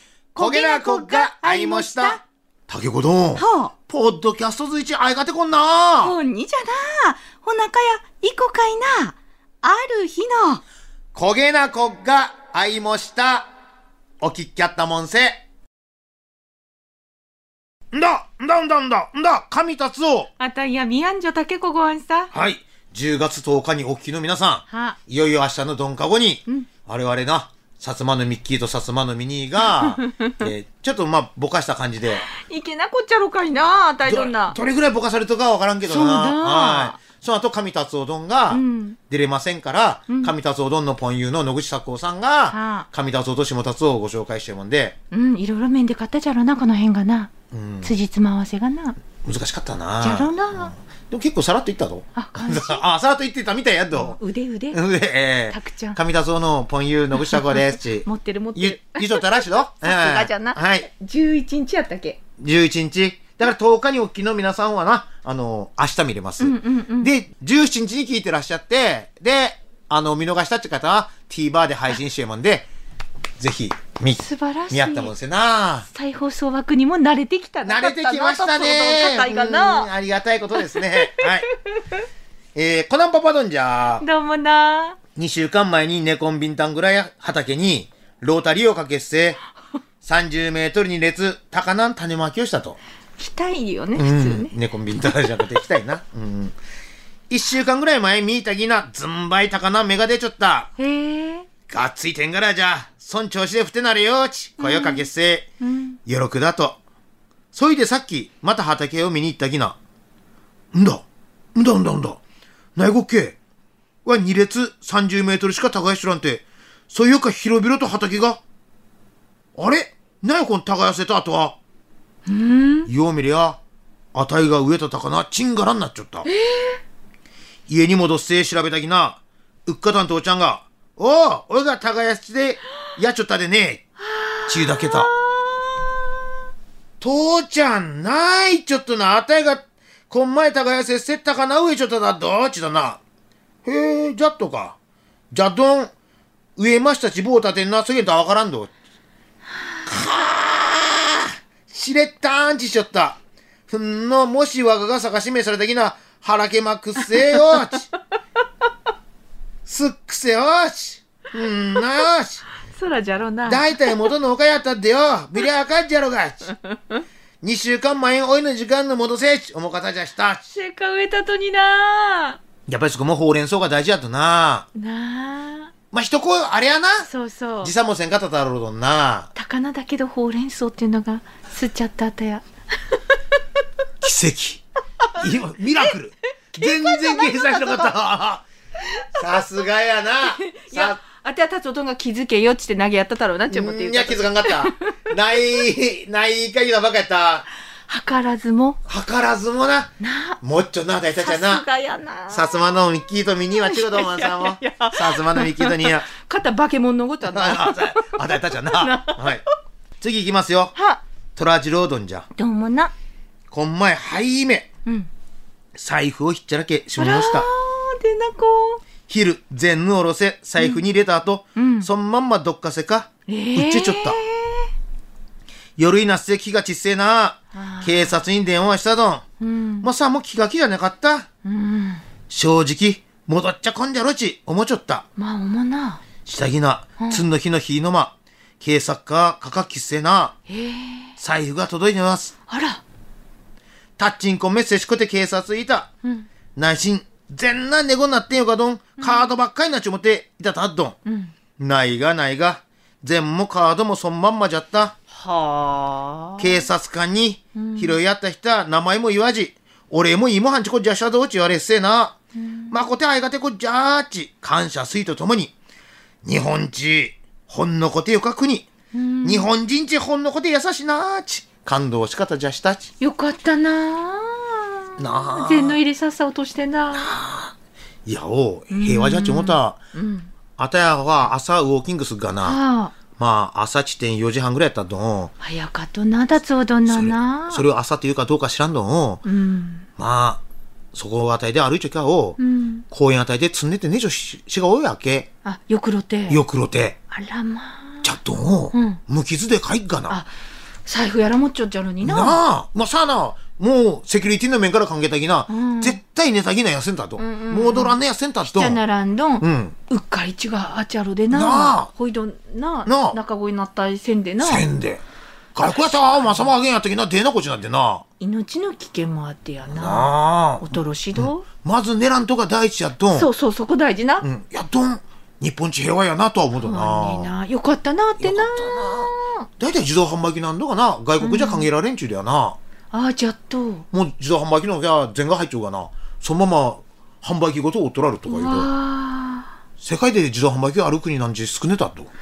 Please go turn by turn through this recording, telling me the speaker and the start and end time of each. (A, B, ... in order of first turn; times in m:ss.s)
0:00.3-0:02.2 A
0:00.4-0:06.1 B
0:03.4-0:03.7 A
0:06.0-0:10.6 A
0:11.1-0:13.5 B
0:14.2-0:15.4 B
0:17.9-0:20.3 B
0:20.4-0:22.3 A
0:22.3-0:32.3 B
0:24.7-0:25.0 A
0:29.7-0:30.4 A
0:32.3-0:34.6 A
0:34.0-0:45.0 B
0:35.8-0:37.0 A
0:38.5-0:39.0 A
0:42.5-0:42.9 A
0:45.1-0:47.3 A
0:47.5-0:47.9 B
0:47.8-0:49.0 A
0:49.2-0:54.2 B
0:50.0-0:50.7 A
0:52.1-0:52.8 A
0:53.9-0:54.8 A
0:54.7-1:00.9 B
0:55.5-0:56.0 A
0:58.0-1:02.2 A
1:02.4-1:12.7 B
1:06.4-1:07.1 A
1:13.4-1:15.9 B
1:14.1-1:15.1 A
1:15.9-1:19.9 A
1:17.6-1:21.5 B
1:20.5-1:21.5 A
1:22.5-1:24.0 B
1:24.0-1:25.0 A
1:25.2-1:29.4 B
1:30.0-1:32.8 B
1:33.2-1:34.5 A
1:34.0-1:36.6 B
1:37.3-1:40.7 B
1:40.8-1:41.5 A
1:41.7-1:45.4 B
1:44.6-1:45.1 A
1:45.6-1:46.0 A
1:46.0-1:46.8 B
1:47.5-1:49.8 B
1:50.7-1:52.2 B
1:52.8-1:53.4 B
1:54.0-1:58.4 B
1:59.6-2:01.6 B
2:02.3-2:02.9 A
2:02.9-2:03.6 B
2:04.1-2:06.3 B
2:06.2-2:06.8 A
2:07.7-2:13.8 B
2:14.1-2:15.9 A
2:14.5-2:15.1 B
2:17.0-2:23.0 B
2:23.6-2:24.8 B
2:25.3-2:25.9 B
2:26.6-2:28.7 B
2:29.9-2:37.9 B
2:37.3-2:37.6 A
2:39.6-2:42.4 B
2:42.7-2:44.1 A
2:43.4-2:46.5 B
2:47.4-2:50.5 B
2:50.5-2:52.4 A
2:52.7-2:54.7 B
2:54.7-2:55.7 A
2:55.9-2:57.1 B
2:57.0-2:57.7 A
2:57.6-2:59.3 B
2:59.3-3:03.0 A
3:04.0-3:04.6 B
3:05.1-3:08.4 B
3:06.6-3:07.9 A
3:09.1-3:11.0 B
3:10.2-3:14.9 A
3:13.5-3:17.5 B
3:17.9-3:18.8 A
3:18.8-3:21.6 B
3:20.0-3:20.4 A
3:21.2-3:22.8 A
3:22.3-3:26.1 B
3:23.6-3:29.4 A
3:27.3-3:29.4 B
3:30.0-3:30.7 B
3:30.7-3:31.0 A
3:31.4-3:32.3 B
3:32.4-3:32.9 A
3:33.5-3:34.7 B
3:35.8-3:37.5 B
3:37.0-3:38.8 A
3:39.1-3:44.2 B
3:41.6-3:41.9 A
3:43.3-3:44.7 A
3:45.8-3:49.2 B
3:47.5-3:48.1 A
3:49.4-3:49.9 A
3:49.8-3:51.3 B
3:51.4-3:52.0 A
3:52.3-3:55.0 B
3:55.2-3:56.0 A
3:56.2-4:00.4 B
3:57.0-3:57.2 A
4:00.5-4:01.1 A
4:01.2-4:02.3 B
4:02.5-4:02.8 A
4:04.0-4:05.9 B
4:06.5-4:11.0 B
4:09.0-4:09.3 A
4:11.0-4:11.3 A
4:11.6-4:14.9 B
4:15.1-4:16.6 A
4:16.4-4:22.2 B
4:17.5-4:18.0 A
4:22.4-4:22.8 A
4:22.7-4:25.5 B
4:26.2-4:28.7 B
4:28.9-4:29.5 A
4:29.2-4:32.9 B
4:33.0-4:37.1 A
4:35.0-4:35.8 B
4:36.9-4:37.5 B
4:38.0-4:39.8 B
4:38.7-4:40.3 A
4:40.6-4:42.6 B
4:42.4-4:43.0 A
4:43.2-4:45.3 B
4:45.4-4:47.6 A
4:46.9-4:49.2 B
4:49.2-4:49.9 A
4:50.0-4:50.4 B
4:50.9-4:52.4 B
4:52.4-4:52.8 A
4:52.9-4:55.3 B
4:55.4-4:56.4 A
4:56.3-4:57.0 B
4:57.1-4:58.1 A
4:58.0-5:00.2 B
4:58.7-4:59.0 A
5:00.8-5:02.4 A
5:02.0-5:08.8 B
5:05.5-5:06.0 A
5:07.2-5:14.6 A
5:09.4-5:09.7 B
5:11.3-5:11.9 B
5:12.8-5:13.2 B
5:14.4-5:15.0 B
5:15.5-5:18.0 B
5:15.9-5:16.5 A
5:18.2-5:21.4 A
5:19.7-5:23.3 B
5:23.1-5:24.2 A
5:24.2-5:27.3 B
5:26.6-5:29.5 A
5:28.2-5:32.6 B
5:31.2-5:31.7 A
5:32.9-5:33.8 A
5:33.9-5:38.7 B
5:38.3-5:39.5 A
5:39.8-5:42.1 B